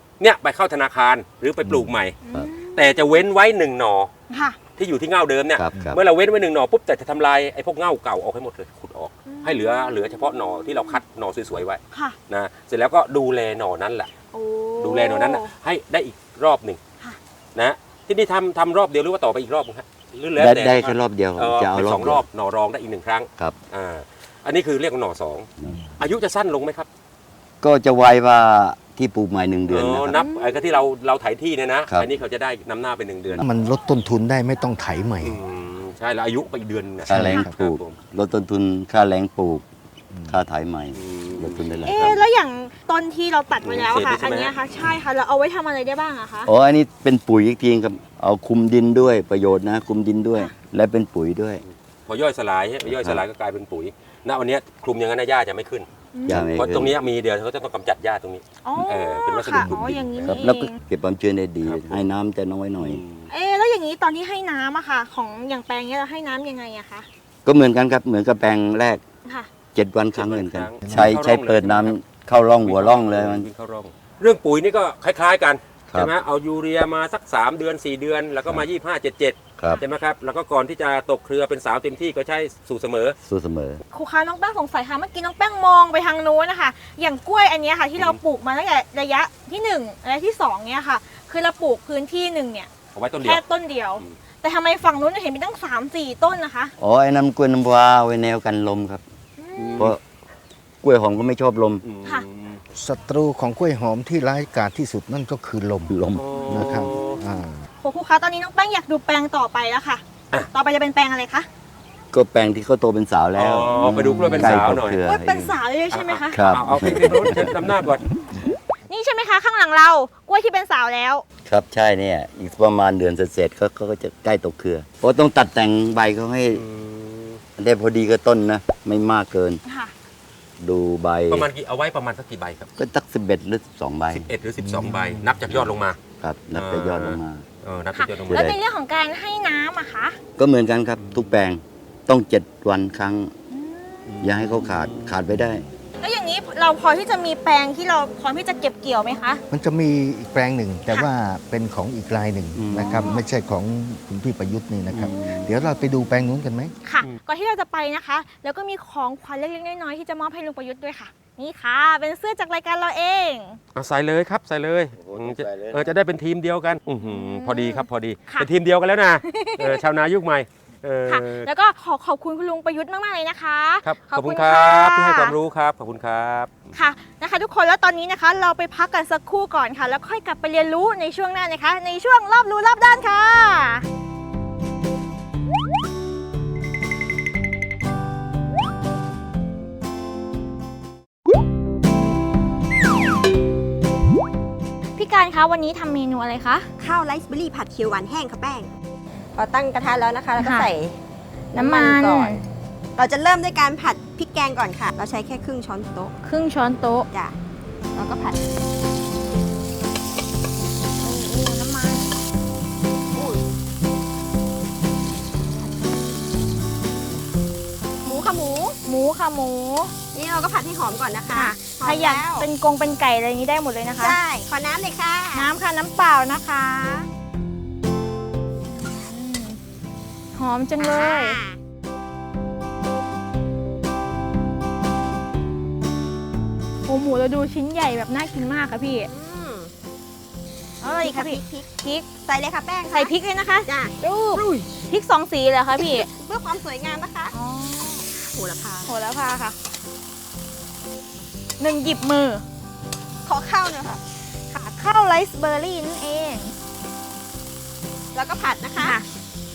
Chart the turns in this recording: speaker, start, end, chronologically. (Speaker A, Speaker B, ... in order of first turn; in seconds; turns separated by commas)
Speaker A: 0.2-4.1, Speaker B: 1.6-2.5, Speaker C: 2.2-3.1, Speaker C: 4.3-4.6, Speaker A: 4.8-14.1, Speaker B: 5.5-6.0, Speaker C: 9.2-11.0, Speaker C: 11.9-12.2, Speaker C: 14.3-15.5, Speaker A: 14.8-16.8, Speaker A: 17.5-26.9, Speaker B: 20.4-22.2, Speaker B: 25.6-25.9, Speaker B: 27.6-30.1, Speaker A: 29.7-33.4, Speaker C: 30.1-30.7, Speaker D: 33.4-35.4, Speaker A: 35.2-38.0, Speaker B: 37.0-39.6, Speaker D: 37.1-37.5, Speaker D: 40.1-40.4, Speaker B: 40.3-42.1, Speaker A: 40.9-42.1, Speaker C: 41.9-46.5, Speaker A: 43.6-44.5, Speaker B: 46.5-51.6, Speaker A: 51.6-60.4, Speaker B: 52.8-53.2, Speaker C: 56.1-56.4, Speaker B: 56.2-57.0, Speaker C: 58.6-60.7, Speaker B: 59.6-63.0, Speaker A: 61.6-62.0, Speaker A: 62.8-63.3, Speaker C: 63.3-67.1, Speaker B: 67.4-69.0, Speaker B: 69.7-73.5, Speaker A: 70.1-72.0, Speaker D: 70.8-71.1, Speaker A: 72.6-83.2, Speaker B: 83.2-83.8, Speaker C: 83.9-92.7, Speaker A: 92.9-93.4, Speaker C: 93.2-96.7, Speaker B: 96.8-99.0, Speaker C: 99.4-99.9, Speaker A: 99.5-99.9, Speaker B: 100.8-101.8, Speaker A: 101.8-102.6, Speaker D: 102.7-106.0, Speaker B: 105.9-106.9, Speaker A: 106.2-107.2, Speaker C: 106.3-106.6, Speaker D: 106.5-107.6, Speaker C: 107.8-111.5, Speaker B: 112.1-115.5, Speaker A: 113.3-115.0, Speaker C: 115.0-116.6, Speaker A: 115.9-118.0, Speaker B: 116.3-118.0, Speaker C: 118.9-121.2, Speaker B: 121.4-126.6, Speaker A: 126.5-127.4, Speaker B: 127.6-129.6, Speaker C: 129.6-129.9, Speaker B: 130.6-131.5, Speaker A: 131.3-132.7, Speaker B: 132.8-134.3, Speaker A: 134.1-136.0, Speaker D: 134.6-135.4, Speaker B: 136.2-137.4, Speaker A: 136.5-138.4, Speaker C: 137.9-140.2, Speaker B: 138.3-138.6, Speaker B: 140.4-143.3, Speaker A: 141.0-141.3, Speaker C: 143.5-144.1, Speaker A: 144.1-145.2, Speaker B: 144.2-145.7, Speaker C: 146.0-149.4, Speaker D: 149.5-156.7, Speaker A: 152.6-153.0, Speaker C: 152.8-153.2, Speaker A: 154.9-155.2, Speaker C: 155.0-155.5, Speaker C: 156.8-163.6, Speaker A: 163.7-171.5, Speaker B: 165.0-165.9, Speaker C: 167.0-168.5, Speaker C: 169.2-169.8, Speaker C: 171.1-175.3, Speaker A: 173.8-176.7, Speaker C: 176.7-183.8, Speaker C: 194.9-196.7, Speaker E: 196.8-198.7, Speaker E: 199.3-201.0, Speaker C: 200.4-200.7, Speaker E: 201.5-202.4, Speaker C: 201.5-202.4, Speaker E: 202.9-206.1, Speaker C: 206.2-207.1, Speaker E: 207.1-207.3, Speaker E: 207.9-208.4, Speaker C: 211.0-212.1, Speaker E: 213.1-213.4, Speaker E: 218.0-218.8, Speaker C: 218.8-219.9, Speaker E: 220.1-222.5, Speaker C: 221.3-224.2, Speaker E: 224.0-225.5, Speaker C: 225.3-227.0, Speaker C: 228.7-229.6, Speaker C: 230.3-231.4, Speaker E: 230.8-231.6, Speaker C: 236.9-239.1, Speaker E: 239.0-239.7, Speaker E: 240.8-243.1, Speaker C: 240.8-242.0, Speaker C: 242.9-246.1, Speaker E: 243.7-244.7, Speaker E: 245.8-247.3, Speaker C: 247.3-248.0, Speaker E: 248.2-248.9, Speaker C: 248.9-249.6, Speaker C: 251.6-252.4, Speaker E: 253.2-254.0, Speaker C: 254.5-256.5, Speaker E: 258.1-259.0, Speaker C: 258.8-259.0